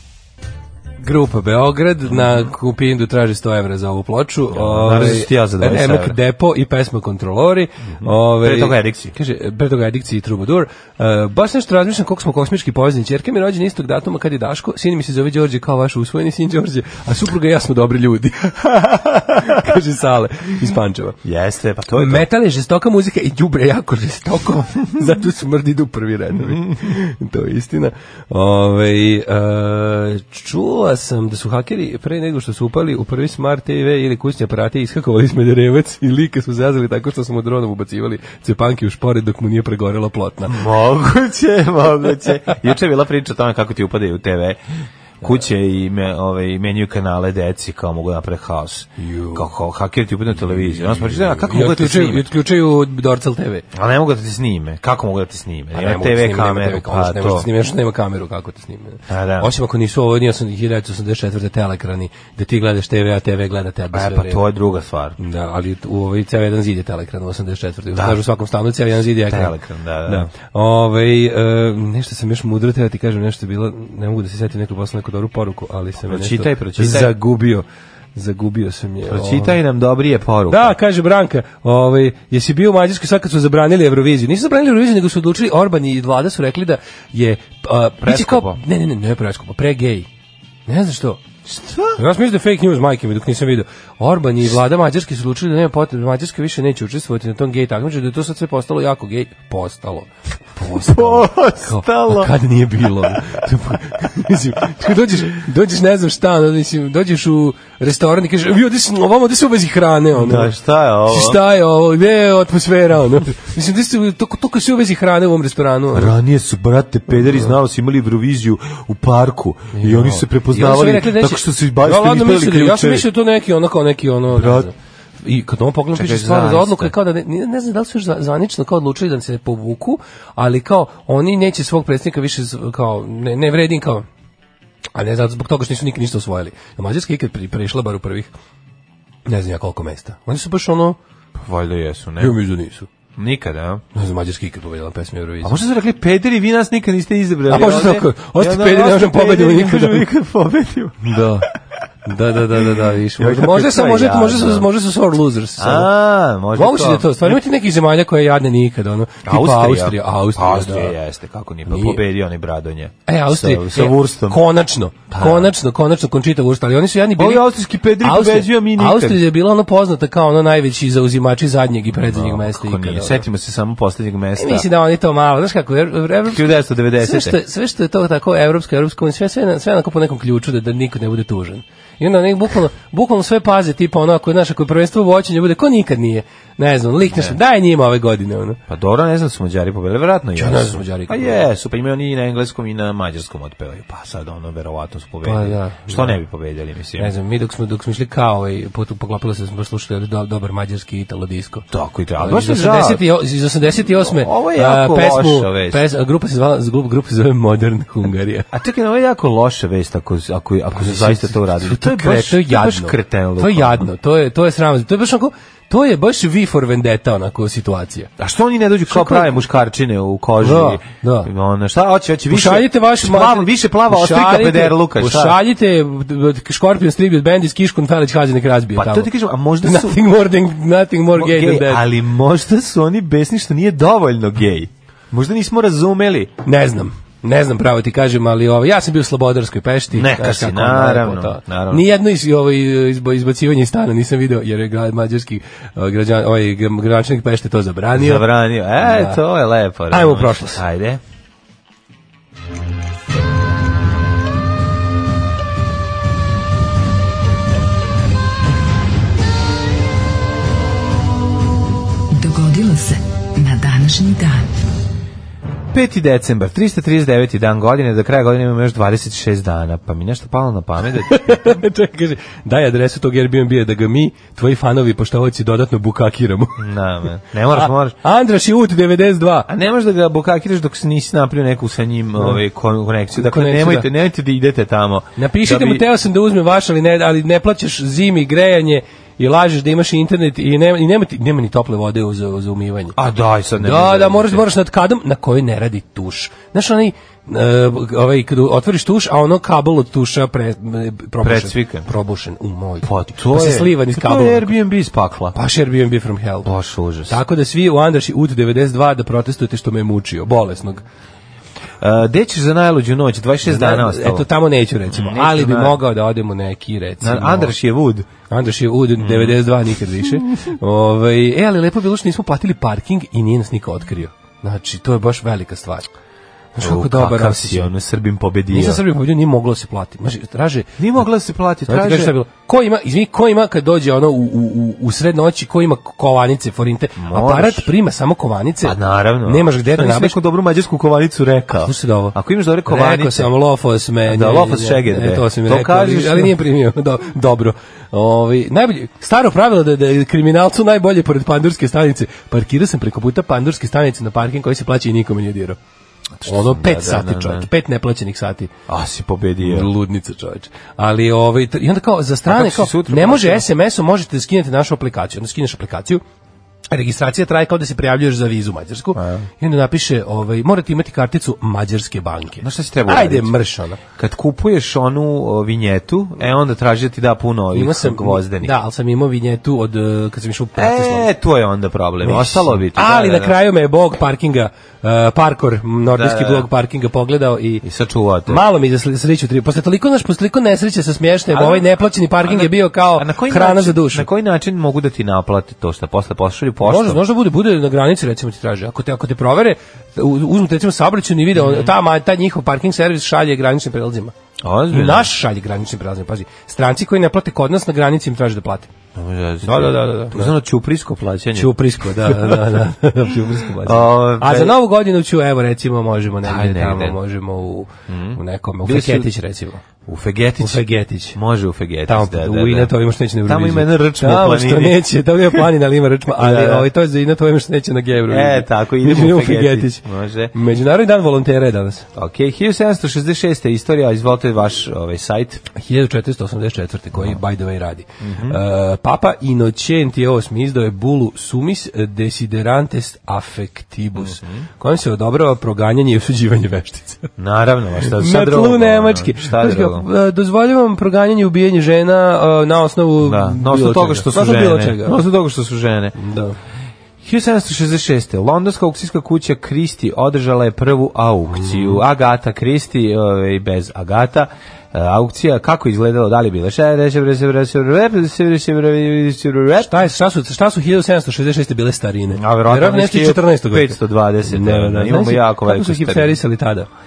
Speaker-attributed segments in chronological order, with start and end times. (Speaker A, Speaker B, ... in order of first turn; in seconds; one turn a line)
Speaker A: 1.0-21.2
Speaker B: 2.1-2.5
Speaker B: 4.5-6.2
Speaker B: 8.0-9.1
Speaker B: 21.2-22.2
Speaker A: 22.0-40.6
Speaker B: 40.5-44.6
Speaker B: 45.2-52.3
Speaker A: 49.0-49.5
Speaker A: 51.0-53.6
Speaker B: 53.7-57.5
Speaker A: 55.7-64.4
Speaker B: 59.1-59.5
Speaker B: 63.9-65.2
Speaker A: 65.2-79.6
Speaker B: 67.9-68.2
Speaker B: 69.2-70.3
Speaker B: 76.0-77.1
Speaker B: 79.0-80.7
Speaker A: 80.5-90.1
Speaker B: 88.0-88.6
Speaker A: 90.7-91.2
Speaker B: 91.5-92.0
Speaker A: 92.0-110.5
Speaker B: 100.7-102.3
Speaker B: 110.1-111.4
Speaker A: 111.1-116.1
Speaker B: 115.9-123.1
Speaker A: 119.7-134.1
Speaker B: 124.3-124.7
Speaker B: 125.9-126.9
Speaker A: 134.9-138.3
Speaker A: 139.2-141.0
Speaker B: 141.4-142.4
Speaker A: 142.2-142.9
Speaker B: 143.2-143.8
Speaker A: 143.9-145.6
Speaker B: 145.4-151.2
Speaker A: 147.5-150.1
Speaker A: 151.0-151.5
Speaker A: 152.0-155.9
Speaker B: 153.2-154.7
Speaker B: 155.6-157.4
Speaker A: 156.5-160.9
Speaker B: 159.2-164.4
Speaker A: 161.7-162.0
Speaker A: 163.1-173.2
Speaker B: 165.1-165.5
Speaker B: 167.2-169.2
Speaker B: 171.9-174.7
Speaker A: 174.4-188.6
Speaker B: 176.3-177.4
Speaker B: 187.0-187.4
Speaker B: 188.7-197.1
Speaker A: 190.4-191.4
Speaker A: 195.2-196.2
Speaker A: 197.0-201.7
Speaker B: 201.7-203.0
Speaker A: 202.2-208.5
Speaker B: 203.8-205.8
Speaker B: 208.5-213.9
Speaker A: 210.7-218.1
Speaker B: 218.2-225.4
Speaker A: 218.9-219.3
Speaker A: 220.4-221.3
Speaker A: 222.3-229.1
Speaker B: 228.7-230.0
Speaker A: 229.6-231.8
Speaker B: 231.2-236.3
Speaker A: 236.4-249.2
Speaker B: 239.9-241.8
Speaker B: 247.9-251.0
Speaker A: 249.9-250.6
Speaker C: 262.1-264.4
Speaker B: 265.7-271.6
Speaker A: 270.9-276.6
Speaker B: 276.6-277.9
Speaker A: 277.5-279.5
Speaker B: 279.5-285.8
Speaker A: 283.1-283.9
Speaker A: 285.2-292.9
Speaker B: 292.9-294.4
Speaker A: 293.6-304.5
Speaker B: 301.2-301.9
Speaker B: 302.8-305.4
Speaker A: 305.3-306.5
Speaker B: 306.4-307.2
Speaker A: 307.1-310.8
Speaker B: 311.8-314.3
Speaker A: 313.4-317.5
Speaker B: 314.9-315.8
Speaker B: 317.0-318.1
Speaker A: 318.3-325.9
Speaker B: 319.0-319.4
Speaker A: 326.5-327.7
Speaker B: 326.6-328.8
Speaker A: 328.5-330.8
Speaker B: 330.8-332.1
Speaker A: 331.6-340.2
Speaker B: 337.0-337.7
Speaker B: 338.6-343.3
Speaker A: 341.6-355.6
Speaker B: 344.0-346.4
Speaker B: 356.2-357.5
Speaker A: 356.2-358.5
Speaker B: 358.7-359.7
Speaker A: 359.4-366.0
Speaker B: 362.3-363.4
Speaker A: 366.7-373.8
Speaker B: 368.9-369.3
Speaker B: 372.4-373.3
Speaker B: 373.9-378.6
Speaker A: 377.5-381.1
Speaker B: 380.6-383.4
Speaker A: 382.0-387.6
Speaker B: 385.9-386.5
Speaker B: 387.6-388.4
Speaker A: 388.3-394.1
Speaker B: 391.3-397.0
Speaker A: 396.6-404.1
Speaker B: 401.3-401.7
Speaker B: 404.4-405.1
Speaker A: 404.7-408.7
Speaker B: 408.9-412.6
Speaker A: 409.4-410.3
Speaker A: 411.3-419.6
Speaker B: 413.3-414.6
Speaker B: 416.2-417.0
Speaker B: 417.9-419.1
Speaker B: 419.9-422.7
Speaker A: 420.4-421.2
Speaker A: 421.9-431.9
Speaker B: 423.2-424.8
Speaker B: 426.2-426.7
Speaker B: 428.1-430.3
Speaker B: 431.9-435.4
Speaker A: 435.5-447.1
Speaker B: 438.0-438.4
Speaker B: 443.9-444.4
Speaker B: 447.2-449.9
Speaker A: 447.8-455.0
Speaker B: 453.0-455.9
Speaker A: 455.9-456.4
Speaker B: 457.0-469.8
Speaker A: 461.3-461.8
Speaker A: 469.6-476.7
Speaker B: 472.1-476.2